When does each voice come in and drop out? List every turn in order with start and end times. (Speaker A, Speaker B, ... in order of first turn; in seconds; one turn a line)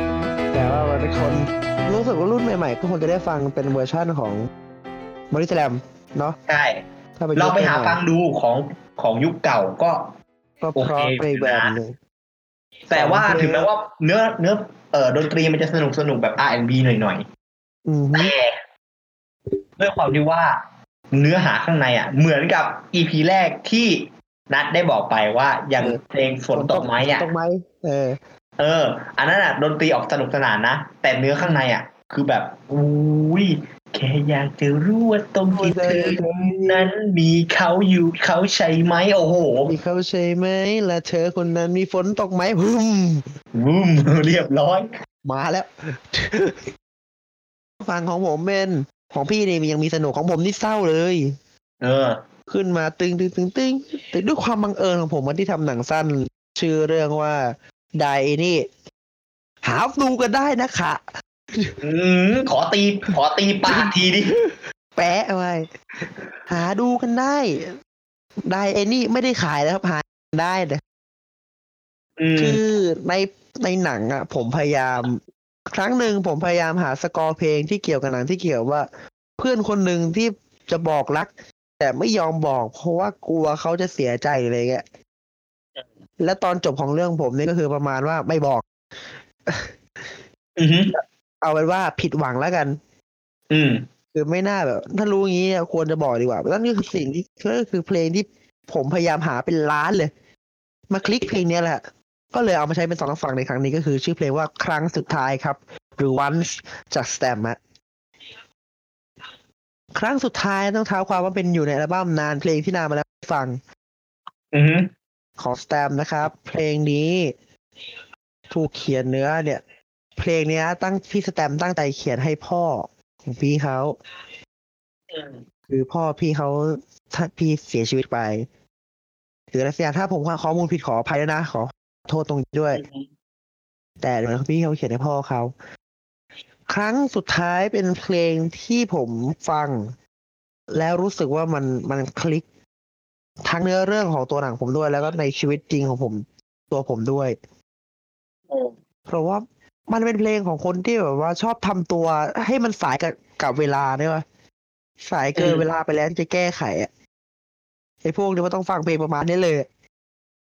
Speaker A: 0.5-4.5
Speaker A: 5.3-6.4
Speaker B: 6.5-6.8
Speaker A: 7.2-8.0
Speaker B: 7.3-10.1
Speaker A: 10.6-11.9
Speaker B: 10.8-11.7
Speaker B: 12.9-17.2
Speaker A: 12.9-13.7
Speaker A: 17.9-18.3
Speaker B: 18.1-18.6
Speaker B: 19.8-20.6
Speaker B: 21.1-27.3
Speaker A: 26.5-28.2
Speaker B: 28.6-39.7
Speaker A: 31.4-31.6
Speaker A: 35.5-36.9
Speaker A: 39.6-43.3
Speaker B: 43.5-44.9
Speaker A: 45.2-46.7
Speaker A: 47.8-51.4
Speaker B: 51.8-52.2
Speaker A: 52.5-58.6
Speaker A: 59.6-61.8
Speaker B: 61.8-64.3
Speaker A: 63.7-65.6
Speaker A: 66.5-67.7
Speaker A: 68.4-70.8
Speaker B: 72.2-72.6
Speaker A: 72.4-78.9
Speaker A: 79.4-84.8
Speaker A: 86.2-88.7
Speaker A: 89.5-90.2
Speaker B: 90.6-90.9
Speaker A: 90.9-92.8
Speaker B: 93.5-93.8
Speaker A: 94.1-100.1
Speaker A: 100.9-107.6
Speaker A: 109.9-113.6
Speaker B: 114.5-114.9
Speaker A: 115.4-117.3
Speaker A: 118.5-119.6
Speaker A: 120.2-123.9
Speaker B: 125.1-125.4
Speaker A: 125.7-128.5
Speaker A: 129.5-132.8
Speaker B: 132.7-133.1
Speaker A: 134.0-135.5
Speaker A: 136.7-139.9
Speaker A: 140.7-142.4
Speaker A: 143.4-147.3
Speaker B: 148.5-148.7
Speaker A: 149.1-154.2
Speaker A: 155.0-156.9
Speaker B: 155.3-155.6
Speaker A: 158.0-159.7